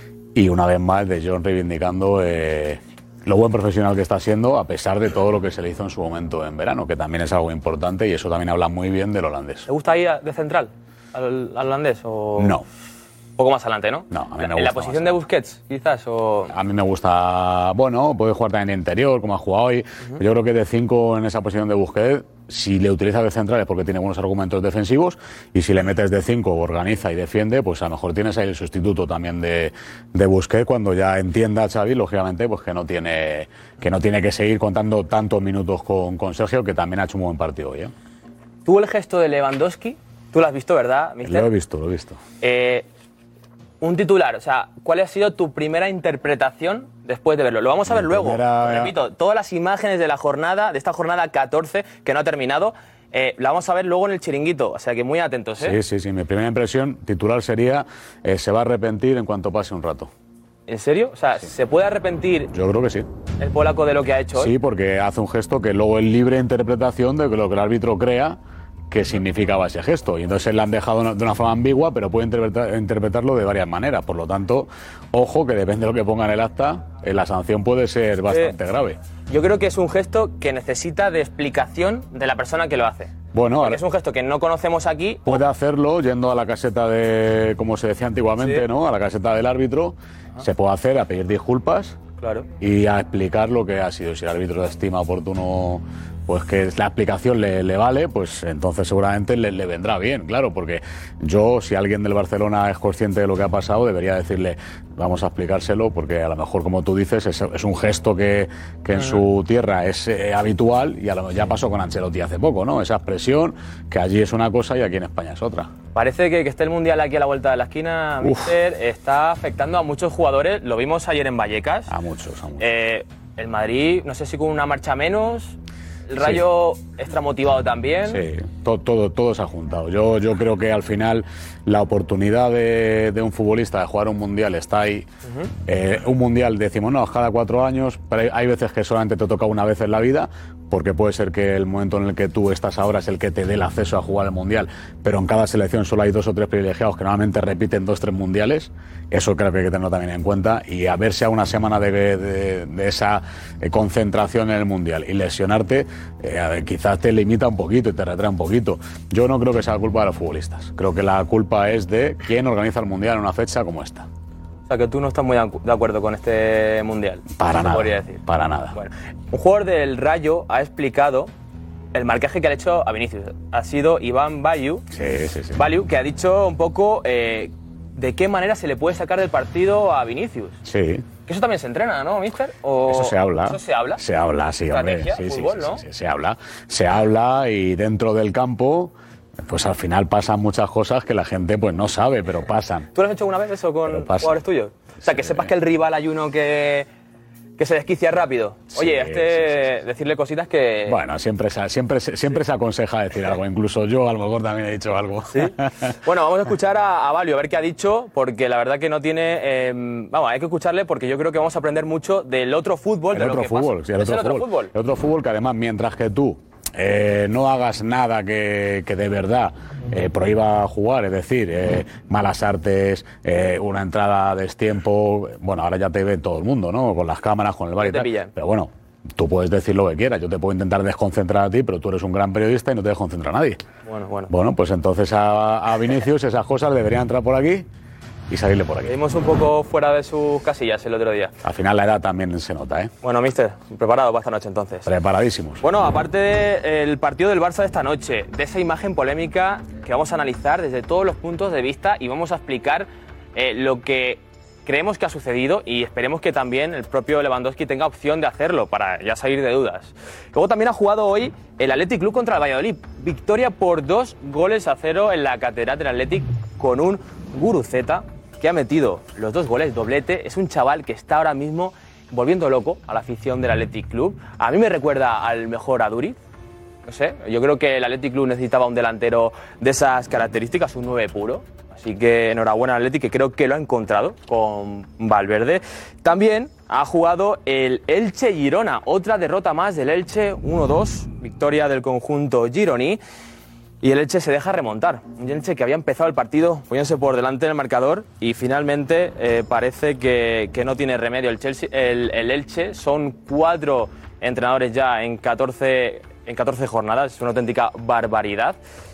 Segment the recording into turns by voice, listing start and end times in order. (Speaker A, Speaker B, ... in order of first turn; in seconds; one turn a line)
Speaker A: 0.3-9.7
Speaker B: 9.7-12.5
Speaker A: 12.4-12.6
Speaker B: 13.4-16.5
Speaker A: 14.1-15.2
Speaker A: 16.5-37.9
Speaker B: 38.6-41.5
Speaker A: 41.2-42.2
Speaker B: 42.4-42.9
Speaker B: 43.8-55.8
Speaker A: 47.9-48.9
Speaker A: 55.6-60.1
Speaker B: 60.7-62.5
Speaker A: 62.5-63.1
Speaker B: 63.4-64.5
Speaker A: 64.3-68.4
Speaker A: 68.9-79.0
Speaker B: 78.3-78.5
Speaker B: 79.3-85.4
Speaker A: 83.3-83.8
Speaker A: 85.2-92.0
Speaker B: 88.4-88.6
Speaker B: 92.2-92.5
Speaker A: 92.6-115.7
Speaker B: 115.9-121.9
Speaker A: 118.2-118.5
Speaker A: 121.9-122.7
Speaker B: 122.6-125.5
Speaker B: 126.1-128.2
Speaker A: 128.1-135.1
Speaker B: 135.2-135.5
Speaker A: 135.7-164.1
Speaker B: 164.7-168.2
Speaker A: 167.4-168.7
Speaker B: 168.7-171.3
Speaker B: 171.9-174.8
Speaker A: 174.9-175.7
Speaker B: 175.5-180.6
Speaker A: 180.6-181.0
Speaker B: 181.3-184.0
Speaker A: 182.9-188.9
Speaker B: 184.7-185.8
Speaker A: 189.4-192.9
Speaker B: 192.9-196.9
Speaker A: 193.9-194.4
Speaker A: 195.0-195.5
Speaker B: 197.6-201.0
Speaker A: 198.7-199.8
Speaker A: 200.9-205.9
Speaker B: 206.0-214.7
Speaker A: 213.1-233.6
Speaker B: 227.8-228.3
Speaker B: 233.8-234.3
Speaker A: 234.3-237.7
Speaker A: 238.3-238.9
Speaker B: 238.8-241.3
Speaker A: 241.4-242.9
Speaker B: 243.0-244.9
Speaker A: 244.8-245.6
Speaker B: 245.6-276.2
Speaker B: 276.9-293.0
Speaker B: 293.8-308.6